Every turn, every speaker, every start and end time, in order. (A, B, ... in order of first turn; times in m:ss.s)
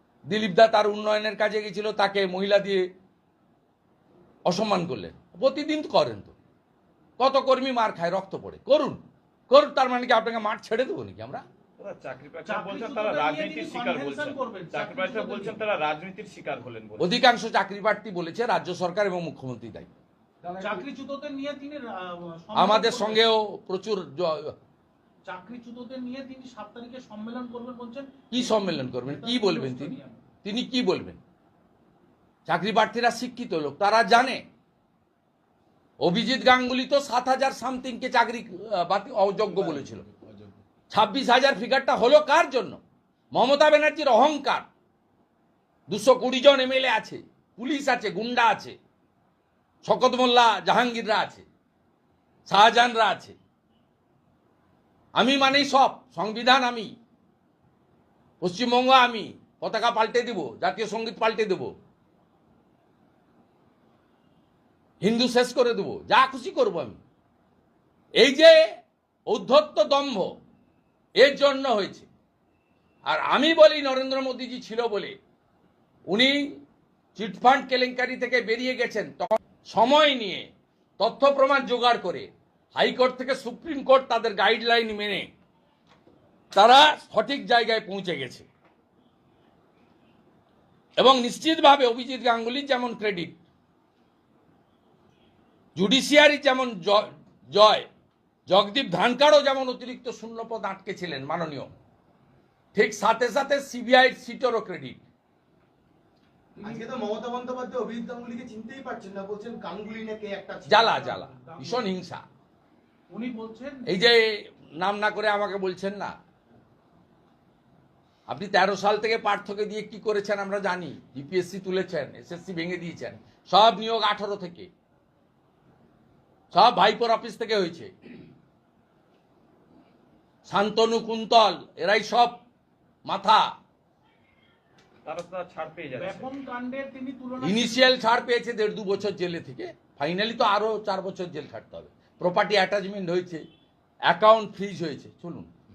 0:00.3-0:02.8 A
0:04.4-0:06.3 A
0:07.2-0:11.4 A
0:11.8-0:17.1 B
0:12.4-0:15.6 C
0:17.0-0:20.0 A
0:20.5-0:20.7 D
0:20.6-0:23.2 C
0:22.5-0:24.5 A
0:25.2-0:30.2 C
0:28.3-0:31.2 A
0:32.4-0:34.4 A
0:36.0-0:40.0 A
0:40.9-0:42.8 A
0:43.3-0:44.6 A
0:45.9-0:48.8 A
0:49.8-0:51.4 A
0:52.5-0:53.4 A
0:55.2-0:56.9 A
0:58.4-1:01.7 A
1:05.0-1:07.0 A
1:08.2-1:08.6 A
1:09.3-1:10.3 A
1:11.2-1:12.1 A
1:13.0-1:15.2 A
1:16.1-1:16.5 A
1:17.1-1:20.5 A
1:21.0-1:25.3 A
1:26.5-1:28.5 A
1:31.0-1:33.4 A
1:35.8-1:37.9 A
1:38.5-1:41.7 A
1:42.7-1:45.0 A
1:46.6-1:46.8 C
1:46.6-1:50.9 D
1:50.7-1:52.2 A
1:50.8-1:51.9 C
1:53.1-1:53.9 C
1:53.9-1:54.2 A
1:54.8-1:56.1 A
1:58.3-2:04.7 A
2:06.5-2:07.9 A
2:10.5-2:12.4 A
2:13.0-2:13.4 A
2:15.0-2:16.3 B
2:16.0-2:18.1 C
2:17.4-2:23.4 A
2:24.1-2:25.5 A